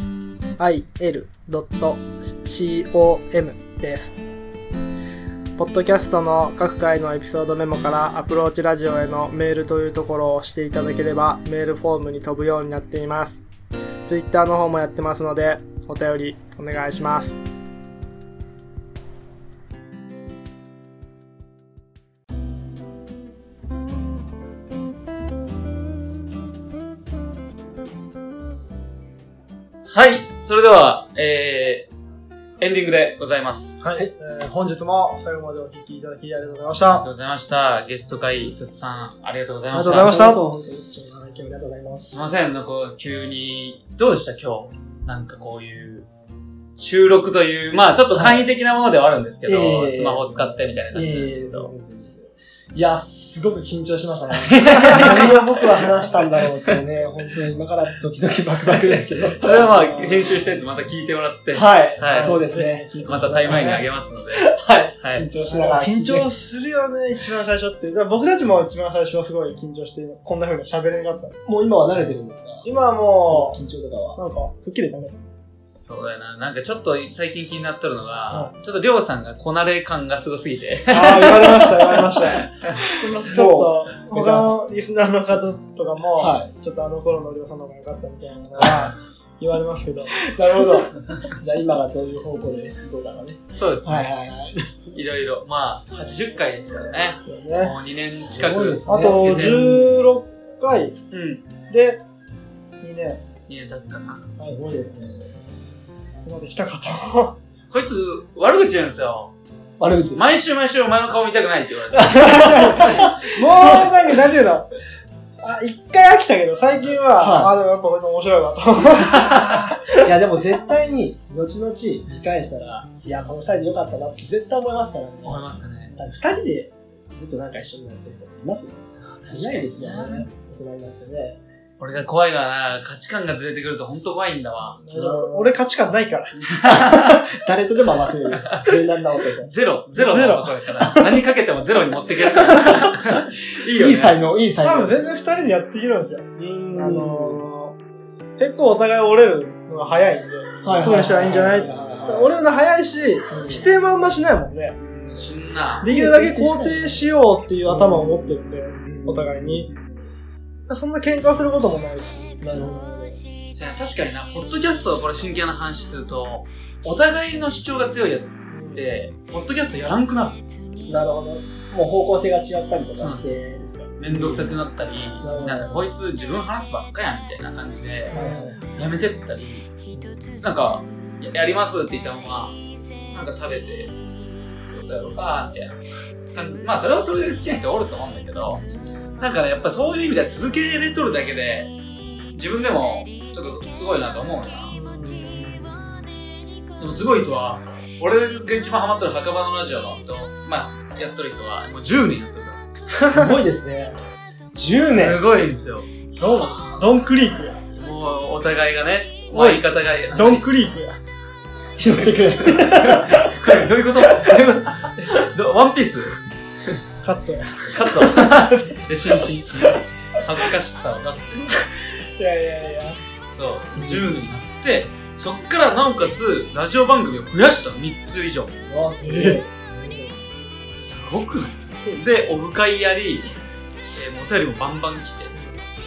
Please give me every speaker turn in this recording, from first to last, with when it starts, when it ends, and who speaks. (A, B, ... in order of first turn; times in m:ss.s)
0:00.6-0:04.2 A
0:05.6-0:13.4 A
0:14.1-0:17.4 A
0:29.9-0:31.9 B
0:32.6-0:33.8 B
0:33.8-0:37.1 A
0:36.9-0:40.3 B
0:39.7-0:40.4 A
0:39.9-0:42.3 C
0:42.1-0:46.1 B
0:46.8-0:51.7 B
0:48.1-0:48.5 C
0:49.5-1:00.4 C
0:54.3-0:56.8 B
0:58.7-1:02.4 B
1:01.5-1:06.3 C
1:02.1-1:03.8 A
1:03.0-1:05.3 B
1:05.5-1:11.4 A
1:11.5-1:12.7 C
1:12.6-1:13.6 A
1:13.3-1:14.2 C
1:14.2-1:15.2 A
1:15.6-1:22.0 B
1:20.9-1:30.8 A
1:23.3-1:24.5 C
1:26.2-1:26.5 C
1:30.2-1:35.0 C
1:33.5-1:34.1 B
1:34.9-1:39.6 B
1:37.2-1:37.8 A
1:38.2-1:39.9 C
1:38.9-1:41.0 A
1:41.1-1:41.5 B
1:41.7-1:42.0 A
1:42.8-1:43.2 A
1:43.5-1:44.5 B
1:44.4-1:45.4 C
1:46.2-1:47.4 A
1:47.7-1:49.3 B
1:49.8-1:50.2 C
1:50.1-1:52.8 B
1:52.0-1:54.0 C
1:52.1-1:54.7 A
1:55.4-2:00.0 A
1:57.1-1:57.5 C
1:59.0-2:08.8 C
1:59.1-1:59.5 B
2:05.2-2:06.0 B
2:09.0-2:10.3 B
2:09.3-2:11.4 C
2:11.8-2:14.8 B
2:14.8-2:16.4 A
2:14.9-2:15.6 C
2:16.4-2:17.2 B
2:16.6-2:19.5 C
2:18.3-2:24.2 B
2:20.0-2:20.5 A
2:22.5-2:25.0 C
2:24.6-2:27.8 A
2:26.4-2:27.5 C
2:28.4-2:34.8 A
2:30.6-2:32.3 C
2:33.3-2:33.7 C
2:34.8-2:35.9 B
2:35.8-2:39.7 A
2:35.8-2:37.0 C
2:37.6-2:39.7 C
2:40.7-2:43.2 A
2:42.4-2:42.8 C
2:43.5-2:50.4 B
2:48.5-2:48.8 A
2:50.9-2:54.7 C
2:53.0-2:53.4 B
2:54.0-2:58.2 B
2:55.2-2:55.8 C
2:58.1-2:58.6 A
2:58.1-2:58.6 C
2:58.7-3:04.0 B
3:04.6-3:08.6 B
3:09.2-3:11.7 B
3:12.3-3:14.8 B
3:14.7-3:15.8 A
3:16.8-3:22.6 B
3:23.0-3:24.0 C
3:23.0-3:23.3 A
3:24.5-3:25.2 C
3:24.8-3:26.1 B
3:26.2-3:27.6 A
3:27.7-3:30.5 B
3:29.3-3:31.0 A
3:31.8-3:34.5 C
3:32.4-3:36.2 B
3:37.0-3:37.8 A
3:37.7-3:41.6 B
3:38.1-3:38.4 C
3:42.2-3:42.8 C
3:42.2-3:42.9 A
3:43.3-3:48.6 B
3:43.8-3:44.1 C
3:48.7-3:50.2 C
3:49.0-3:49.4 A
3:50.8-3:53.3 B
3:53.9-3:55.3 B
3:55.4-3:55.7 A